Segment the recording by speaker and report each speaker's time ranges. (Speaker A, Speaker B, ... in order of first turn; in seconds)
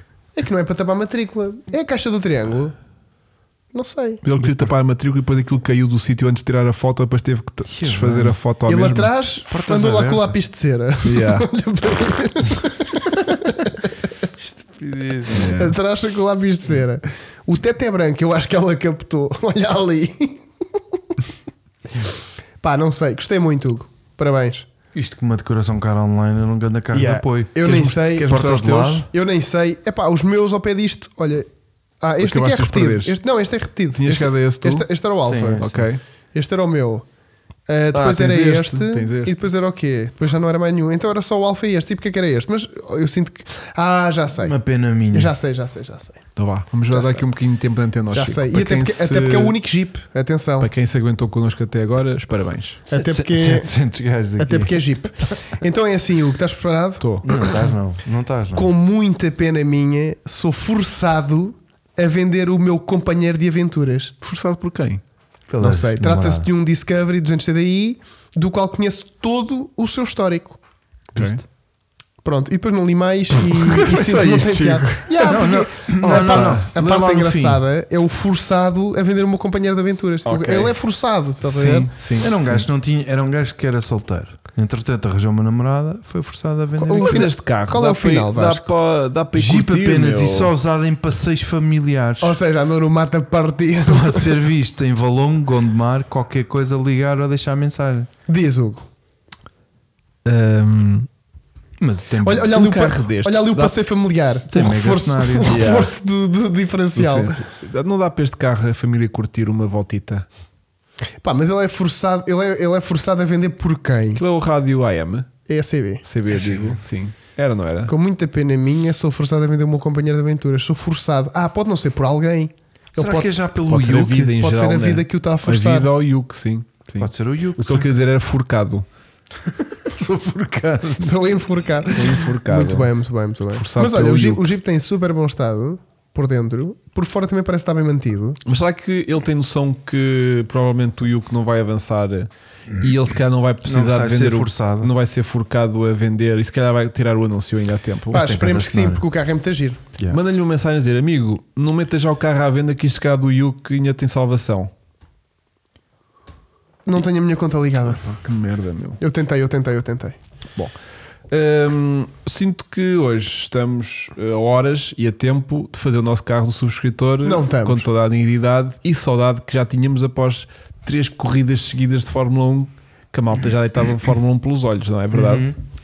Speaker A: 0.3-2.7, 3.7-4.2, 8.7-13.8, 15.5-20.4, 22.6-24.7, 26.9-28.3, 29.1-31.5, 32.0-35.7, 36.3-37.0, 37.7-44.5, 45.1-46.2, 46.9-47.3, 48.1-50.7, 52.9-53.7, 54.4-57.0, 58.5-64.1, 65.6-70.6, 72.2-81.9, 86.8-88.7, 92.2-94.4, 98.3-98.8, 102.2-107.4, 111.2-114.2, 115.5-116.0, 117.9-123.3, 124.4-125.9, 131.0-138.4, 148.1-149.8, 156.8-158.0, 159.0-160.2, 167.2-167.9
Speaker B: 4.2-9.1, 11.0-11.5, 15.3-15.8, 27.6-29.1, 32.2-33.1, 33.9-34.9, 35.5-36.0, 37.9-39.4, 46.4-49.5, 50.6-52.8, 57.0-57.3, 64.2-65.0, 71.1-71.4, 73.3-75.5, 76.0-76.6, 80.2-80.8, 81.4-82.7, 87.0-90.5, 100.2-101.1, 102.4-103.7, 105.5-105.9, 106.9-110.2, 114.2-115.3, 116.0-117.9, 123.7-128.8, 131.8-132.9, 133.5-134.5, 138.4-148.3, 150.1-154.7, 158.0-159.0, 161.3-175.5
Speaker C: 7.7-8.4, 9.5-10.3, 14.4-15.5, 24.9-27.6, 28.2-29.1, 35.2-35.9, 44.4-45.3, 52.9-54.8, 57.2-58.7, 65.5-66.5, 75.2-77.6, 82.2-87.3, 89.3-92.4, 93.8-98.1, 101.8-102.5, 104.5-105.6, 116.3-116.8, 122.9-124.4, 127.0-127.9, 129.4-131.2, 143.6-144.9, 148.1-149.0, 175.1-175.6